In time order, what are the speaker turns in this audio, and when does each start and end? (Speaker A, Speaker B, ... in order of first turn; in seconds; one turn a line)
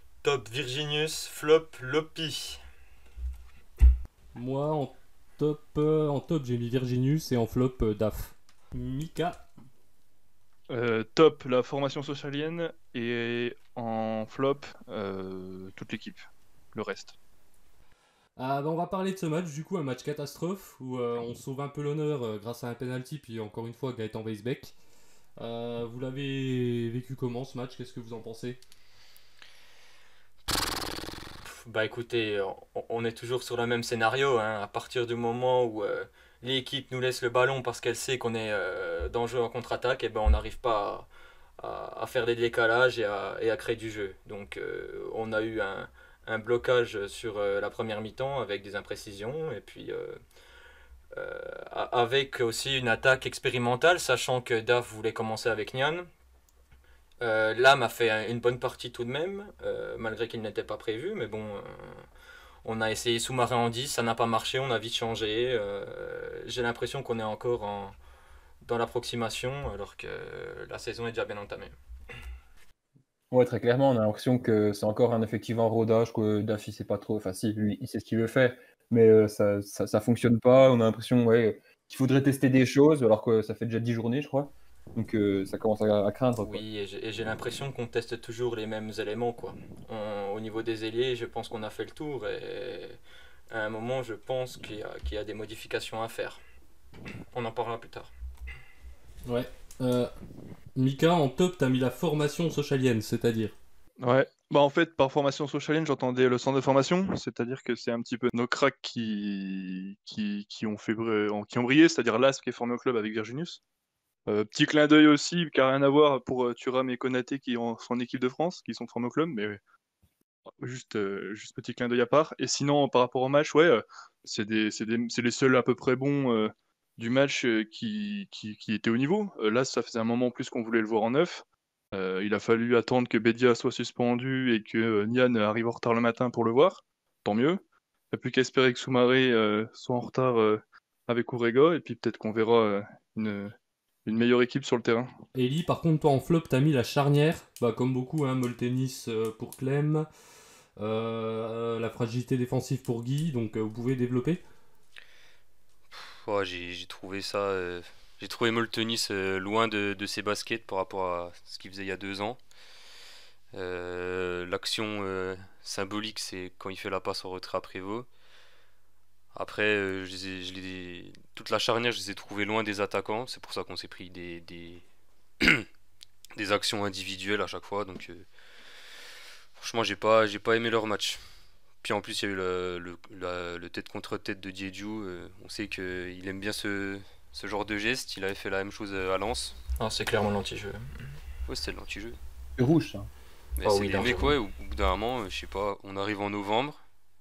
Speaker A: 0.2-2.6
Speaker B: 4.3-9.4
Speaker C: 10.7-16.2
Speaker C: 16.7-17.1
Speaker B: 18.4-24.7
Speaker B: 25.4-28.6
Speaker A: 31.4-41.1
Speaker A: 41.6-50.2
Speaker A: 51.1-56.1
Speaker A: 57.2-62.0
Speaker A: 62.6-67.9
Speaker A: 68.6-71.7
Speaker D: 73.3-86.6
Speaker A: 86.4-93.0
Speaker A: 93.5-96.4
Speaker A: 97.3-98.1
Speaker B: 99.2-100.1
Speaker B: 100.8-103.5
Speaker C: 104.0-113.6
Speaker C: 114.2-119.6
Speaker C: 120.6-143.5
Speaker C: 144.0-145.1
Speaker B: 145.3-150.1
Speaker B: 150.8-154.4
Speaker E: 155.9-162.4
Speaker E: 163.5-168.1
Speaker E: 169.3-174.8
Speaker E: 175.4-175.7
Speaker E: 176.3-178.3
Speaker E: 179.6-181.2
Speaker E: 181.8-189.6
Speaker A: 189.8-191.1
Speaker E: 191.5-192.2
Speaker D: 192.6-193.1
Speaker E: 193.6-196.8
Speaker A: 193.6-194.4